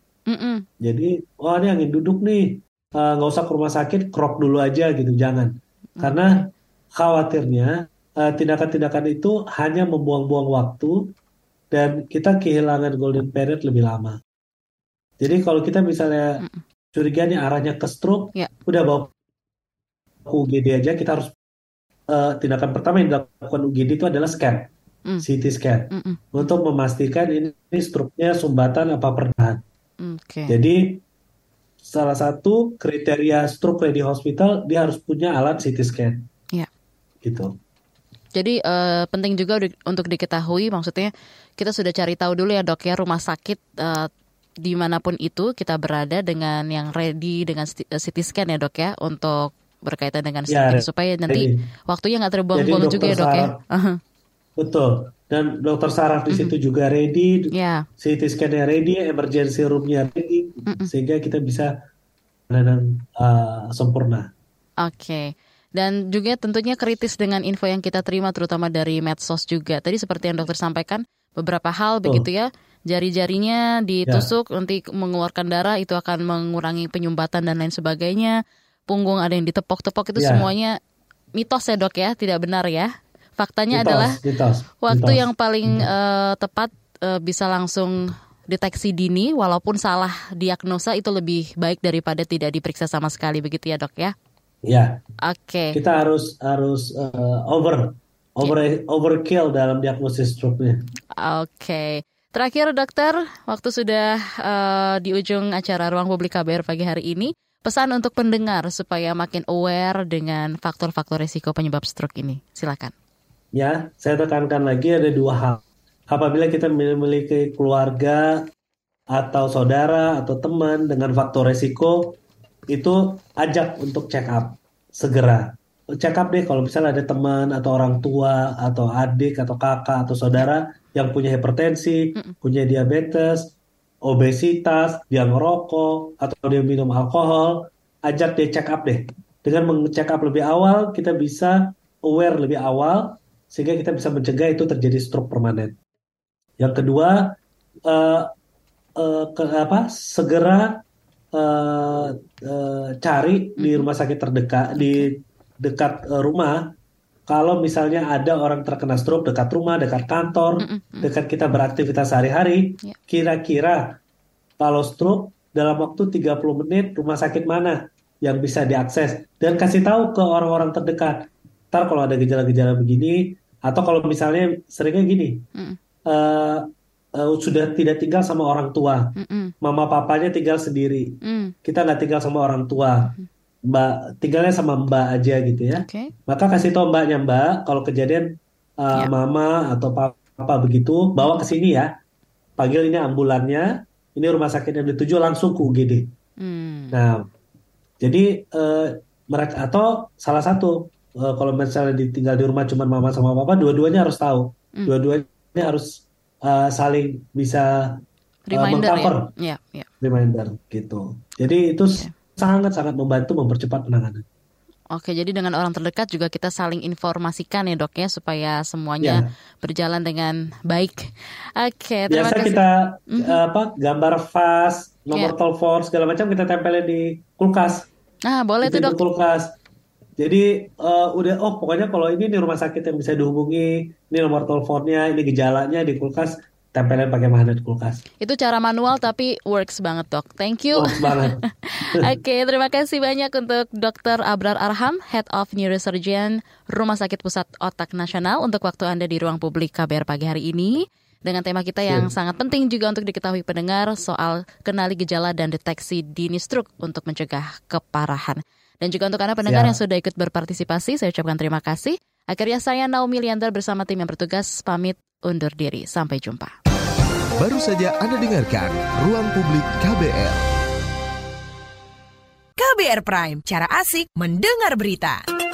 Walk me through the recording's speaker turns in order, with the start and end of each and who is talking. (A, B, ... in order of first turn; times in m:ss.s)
0:00.3-0:00.6 A
0:00.8-0:06.4 B
0:06.0-0:06.4 A
0:07.0-0:11.1 B
0:11.7-0:14.2 B
0:15.2-0:19.1 B
0:20.3-0:21.3 B
0:22.1-0:24.7 B
0:25.2-0:29.6 B
0:25.9-0:26.5 A
0:30.0-0:30.6 A
0:30.5-0:31.0 B
0:31.8-0:36.2 B
0:37.2-0:37.5 B
0:38.3-0:44.1 A
0:44.6-0:54.0 A
0:50.5-0:51.6 B
0:52.5-0:53.6 B
0:54.6-1:01.7 B
0:57.5-0:57.9 A
1:02.5-1:04.3 B
1:04.8-1:20.8 A
1:20.2-1:20.5 B
1:21.4-1:24.2 A
1:23.7-1:25.9 B
1:24.8-1:34.1 A
1:34.6-1:35.0 B
1:35.2-1:35.8 A
1:35.7-1:40.8 B
1:41.2-1:52.9 A
1:53.5-1:58.4 B
1:59.1-2:02.2 B
2:02.7-2:13.5 B
2:14.0-2:25.8 B
2:26.6-2:27.3 B
2:27.9-2:28.3 B
2:29.0-2:30.8 B
2:31.3-2:36.7 B
2:33.6-2:33.9 A
2:34.8-2:35.1 A
2:37.3-2:43.9 B
2:40.6-2:41.1 A
2:44.6-2:55.4 B
2:56.1-2:59.1 B
2:59.2-2:59.5 A
2:59.6-3:03.1 B
3:01.2-3:01.6 A
3:03.7-3:11.9 B
3:05.7-3:06.1 A
3:12.6-3:16.1 B
3:16.4-3:17.0 A
3:16.9-3:17.3 B
3:18.0-3:28.0 B
3:28.5-3:29.9 A
3:28.5-3:29.3 B
3:30.0-3:34.2 B
3:34.9-3:43.4 A
3:42.1-3:47.9 B
3:48.3-3:49.0 A
3:48.6-3:49.5 B
3:50.2-3:58.0 B
3:58.2-4:26.5 A
4:00.7-4:01.4 B
4:19.4-4:19.8 B
4:27.4-4:30.4 C
4:32.6-4:35.0 D